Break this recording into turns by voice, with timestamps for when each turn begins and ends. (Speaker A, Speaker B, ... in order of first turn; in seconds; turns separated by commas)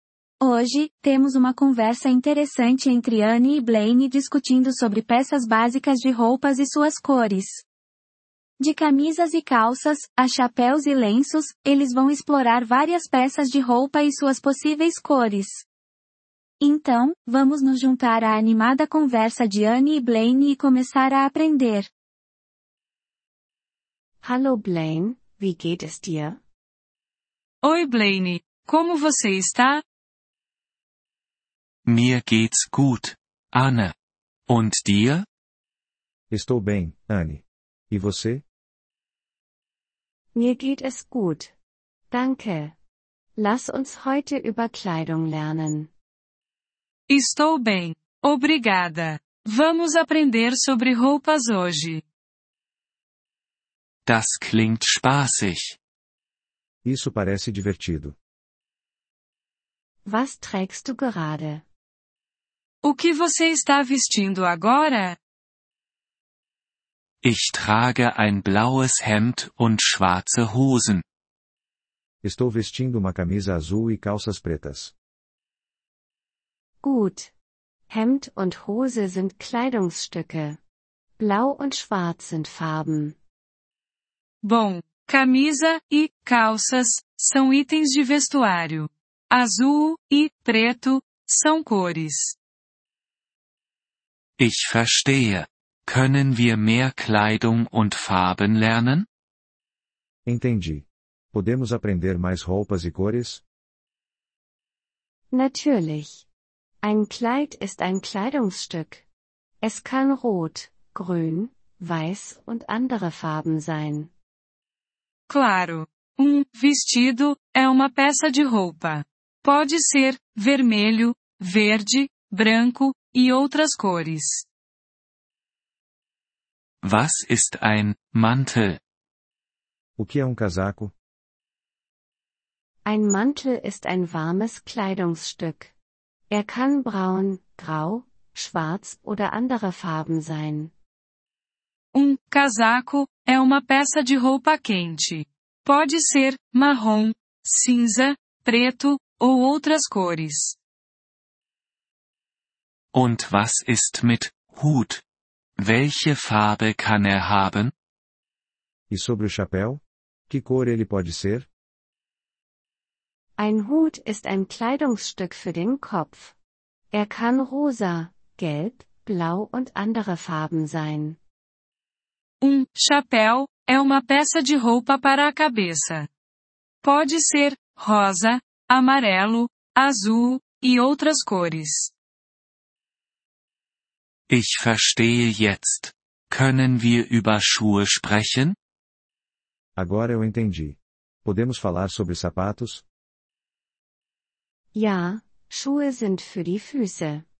Speaker A: 0.4-7.6, Speaker A: 8.6-15.7, Speaker A: 16.6-21.9, Speaker B: 24.2-26.4, Speaker C: 27.6-29.8, Speaker D: 31.9-33.9, Speaker D: 34.5-35.3, Speaker E: 36.3-38.4, Speaker B: 40.3-41.5, Speaker B: 42.1-42.8, Speaker B: 43.4-45.9, Speaker C: 47.1-52.0, Speaker D: 54.0-55.8, Speaker E: 56.8-58.1, Speaker B: 60.0-61.6, Speaker C: 62.8-65.2, Speaker D: 67.2-71.0, Speaker E: 72.2-74.9, Speaker B: 76.8-77.3, Speaker B: 77.9-80.6, Speaker B: 81.2-83.2, Speaker C: 84.4-92.4, Speaker D: 94.4-99.1, Speaker E: 100.3-103.4, Speaker B: 105.3-106.2, Speaker B: 106.8-109.0, Speaker B: 109.6-114.1, Speaker C: 115.3-124.5, Speaker D: 126.8-128.8, Speaker E: 130.0-130.9, Speaker B: 132.8-135.7, Speaker B: 136.3-140.7, Speaker C: 141.9-150.6, Speaker D: 152.9-155.0, Speaker D: 155.6-157.7, Speaker E: 158.9-161.5, Speaker B: 163.4-166.3, Speaker B: 166.9-171.2, Speaker C: 172.4-176.1, Speaker C: 176.8-181.9, Speaker D: 184.3-188.6, Speaker E: 189.8-192.8, Speaker B: 194.7-197.2